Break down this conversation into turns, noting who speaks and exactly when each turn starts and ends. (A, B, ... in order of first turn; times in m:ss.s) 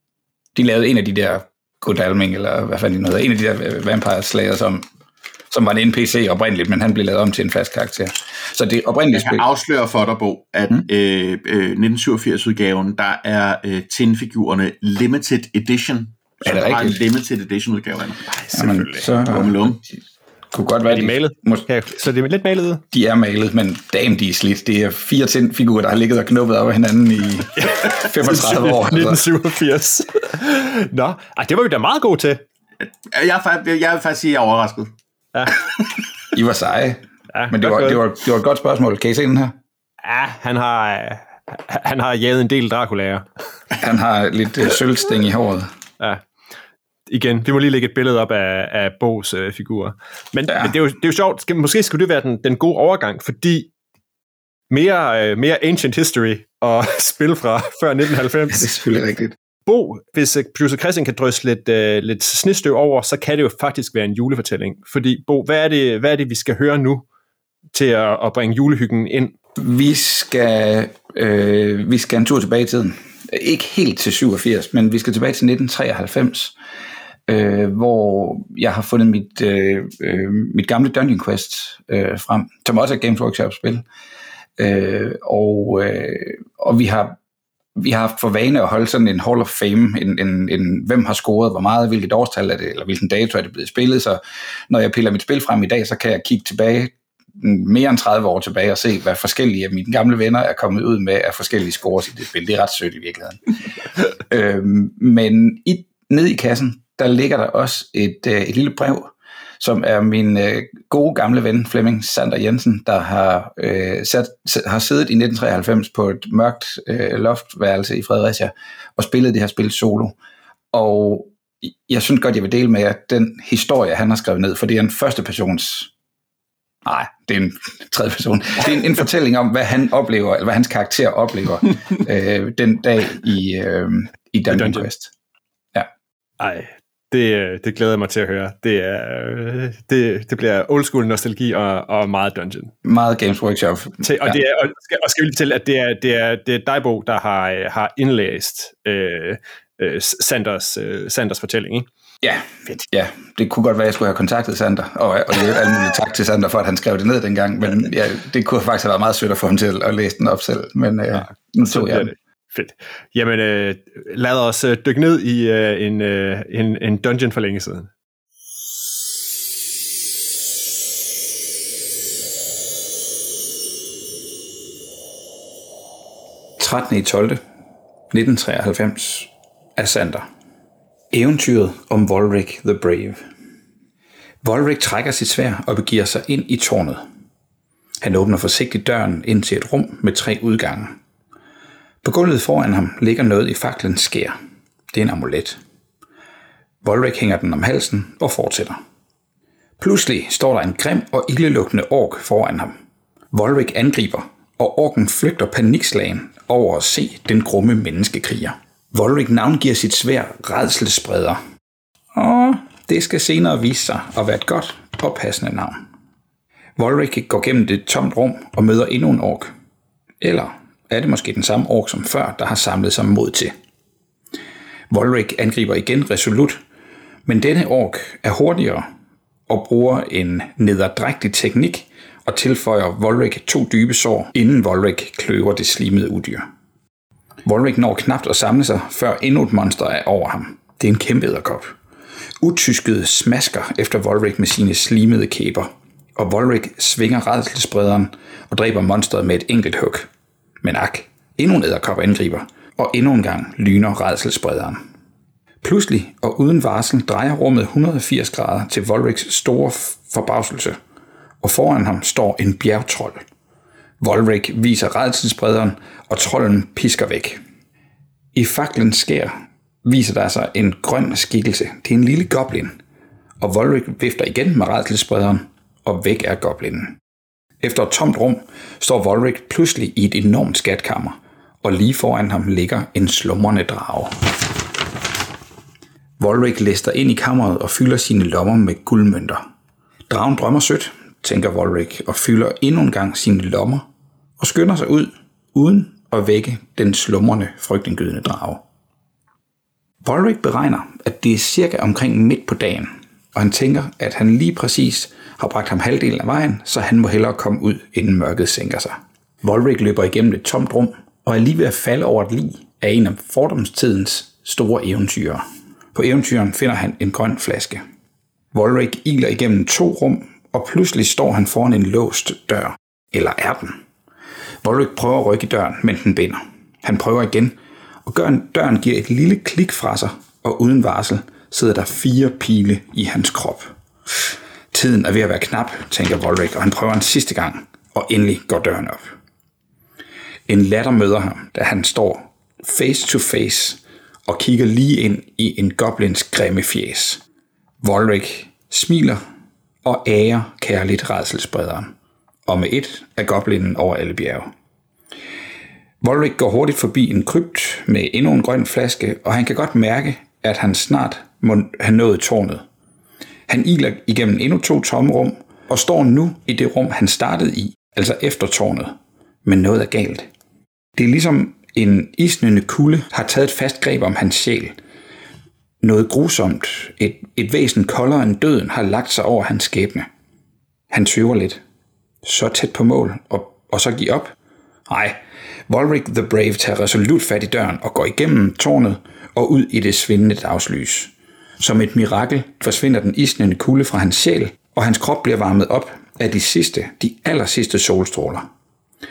0:00.6-0:04.8 A
0:05.5-0:09.4 A
0:09.1-0:18.2 B
0:16.4-0:17.0 A
0:18.3-0:19.1 C
0:18.5-0:19.8 A
0:19.2-0:19.8 B
0:20.5-0:21.7 A
0:20.9-0:22.8 C
0:22.9-0:29.2 A
0:27.6-0:32.4 C
0:32.8-0:34.9 B
0:35.3-0:35.6 C
0:36.3-0:39.5 A
0:37.3-0:38.0 C
0:40.0-0:43.2 C
0:43.8-0:45.7 A
0:47.1-0:53.7 C
0:54.7-0:58.7 C
0:58.5-0:59.4 A
0:59.7-1:07.0 C
1:07.7-1:09.3 C
1:09.6-1:16.6 A
1:17.3-1:23.8 A
1:24.6-1:27.2 A
1:27.8-1:43.4 A
1:44.0-2:00.2 A
2:00.7-2:05.9 A
2:06.8-2:15.1 A
2:14.5-2:14.9 C
2:16.4-2:22.7 C
2:22.8-2:24.4 A
2:24.0-2:31.9 C
2:32.2-2:42.1 A
2:41.1-2:47.9 C
2:56.6-2:57.4 A
2:58.1-3:00.3 A
3:01.1-3:03.2 A
3:04.4-3:07.0 A
3:08.0-3:11.0 A
3:12.0-3:14.4 A
3:14.9-3:15.6 A
3:16.8-3:18.8 A
3:19.8-3:22.8 A
3:23.3-3:31.4 A
3:32.1-3:35.8 A
3:36.8-3:39.5 A
3:40.2-3:43.5 A
3:44.9-3:46.6 A
3:47.3-3:48.9 A
3:49.5-3:56.4 A
3:57.4-4:01.7 A
4:02.4-4:10.1 A
4:10.6-4:14.8 A
4:15.6-4:20.8 A
4:21.4-4:23.2 A
4:24.0-4:27.4 A
4:28.4-4:29.3 A
4:29.8-4:32.8 A
4:33.4-4:37.0 A
4:37.6-4:44.6 A
4:46.2-4:49.4 A
4:50.1-4:53.8 A
4:54.4-4:58.6 A
5:00.0-5:15.4 A
5:16.0-5:17.8 A
5:18.5-5:23.8 A
5:24.6-5:39.2 A
5:40.5-5:47.2 A
5:47.8-5:49.2 A
5:49.8-5:51.9 A
5:52.5-5:54.5 A
5:56.0-6:02.6 A
6:03.5-6:10.3 A
6:11.0-6:14.8 A
6:15.8-6:20.1 A
6:20.9-6:21.6 A
6:22.2-6:24.3 A
6:24.9-6:38.5 A